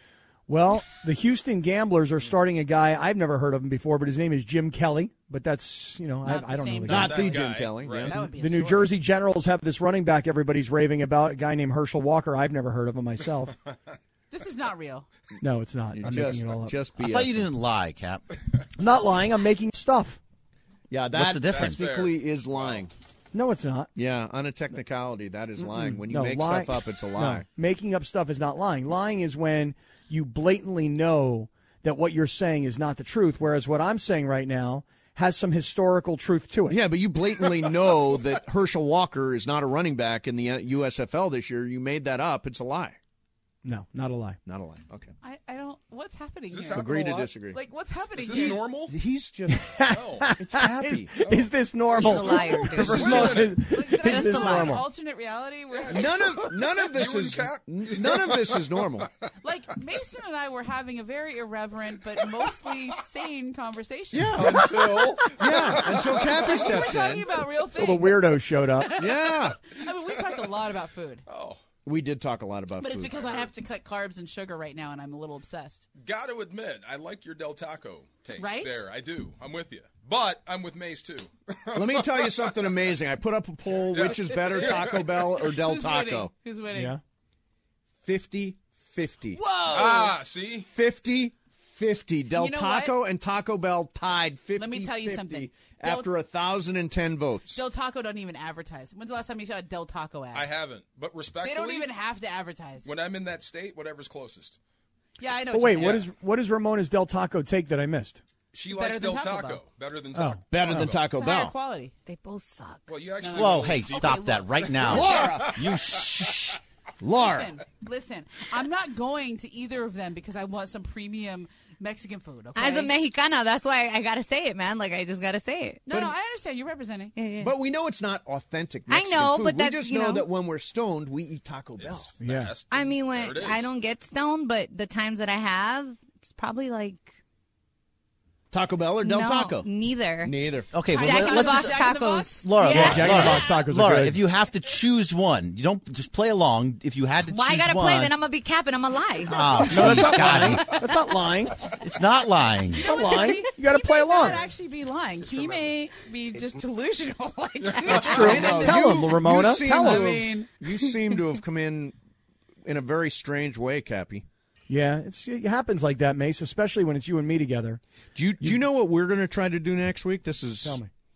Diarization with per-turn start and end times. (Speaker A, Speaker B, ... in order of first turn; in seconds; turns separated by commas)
Speaker A: 0.5-7.3, Speaker B: 6.2-7.4, Speaker C: 6.9-8.2, Speaker D: 6.9-8.1, Speaker B: 8.1-8.9, Speaker A: 8.1-13.5, Speaker B: 14.3-15.1, Speaker A: 15.4-16.7, Speaker C: 15.9-17.5, Speaker E: 17.0-18.2, Speaker A: 18.8-20.2, Speaker C: 20.9-22.9, Speaker E: 21.1-22.0, Speaker D: 21.3-22.8, Speaker A: 23.3-23.9, Speaker C: 23.9-27.4, Speaker A: 25.8-36.8, Speaker C: 36.7-43.0, Speaker A: 43.6-44.4, Speaker C: 44.5-45.1, Speaker B: 45.2-46.8, Speaker D: 46.5-47.3, Speaker C: 46.7-47.6, Speaker B: 47.5-48.6, Speaker D: 48.1-49.0, Speaker C: 48.3-49.7, Speaker A: 49.5-54.9, Speaker D: 49.9-50.3, Speaker C: 50.3-51.1, Speaker F: 51.9-54.8, Speaker D: 52.7-53.6, Speaker C: 52.8-53.1, Speaker B: 53.7-56.2, Speaker D: 55.7-58.8, Speaker C: 55.9-59.1, Speaker B: 59.4-64.5, Speaker C: 64.1-67.4, Speaker D: 64.4-67.0, Speaker B: 66.1-68.2, Speaker A: 67.8-68.9, Speaker B: 68.8-71.2, Speaker C: 69.0-69.6, Speaker D: 71.3-71.6, Speaker C: 71.8-73.3, Speaker B: 72.8-75.9, Speaker D: 76.0-82.7, Speaker B: 78.4-78.8, Speaker C: 81.7-86.3, Speaker D: 83.9-85.3, Speaker B: 84.5-84.9, Speaker B: 85.4-87.0, Speaker A: 86.7-87.0, Speaker C: 88.0-89.4, Speaker B: 89.3-90.2, Speaker D: 89.7-90.7, Speaker C: 90.7-97.6, Speaker B: 92.3-93.0, Speaker B: 94.6-96.1, Speaker B: 97.5-100.5, Speaker D: 100.3-101.9, Speaker B: 101.4-102.9, Speaker D: 102.8-104.6, Speaker B: 105.2-106.0, Speaker A: 105.5-108.2, Speaker D: 105.8-106.0, Speaker D: 108.5-111.2, Speaker B: 108.7-109.6, Speaker A: 110.1-110.9, Speaker C: 110.5-111.5, Speaker B: 111.1-111.9, Speaker F: 112.0-112.9, Speaker D: 112.9-115.8, Speaker B: 113.2-115.3, Speaker E: 113.4-116.6, Speaker C: 114.8-115.6, Speaker C: 117.0-117.5, Speaker B: 117.2-122.9, Speaker F: 122.5-125.8, Speaker B: 125.9-127.1, Speaker F: 127.1-127.5, Speaker C: 127.4-132.1, Speaker F: 128.9-130.3, Speaker D: 131.8-133.7, Speaker A: 132.2-132.5, Speaker F: 132.7-137.1, Speaker C: 138.5-139.7, Speaker F: 139.0-143.4, Speaker C: 140.2-140.7, Speaker E: 140.7-141.8, Speaker B: 140.8-143.3, Speaker E: 142.4-148.2, Speaker A: 142.6-144.2, Speaker F: 147.3-150.5, Speaker E: 149.2-150.8, Speaker A: 149.7-151.7, Speaker E: 151.7-152.9, Speaker B: 152.7-159.0, Speaker A: 152.8-154.4, Speaker D: 157.8-158.4, Speaker A: 157.9-160.3, Speaker C: 157.9-161.9, Speaker B: 159.6-160.5, Speaker C: 162.6-164.2, Speaker A: 164.7-167.8, Speaker C: 168.1-170.8, Speaker A: 170.6-170.9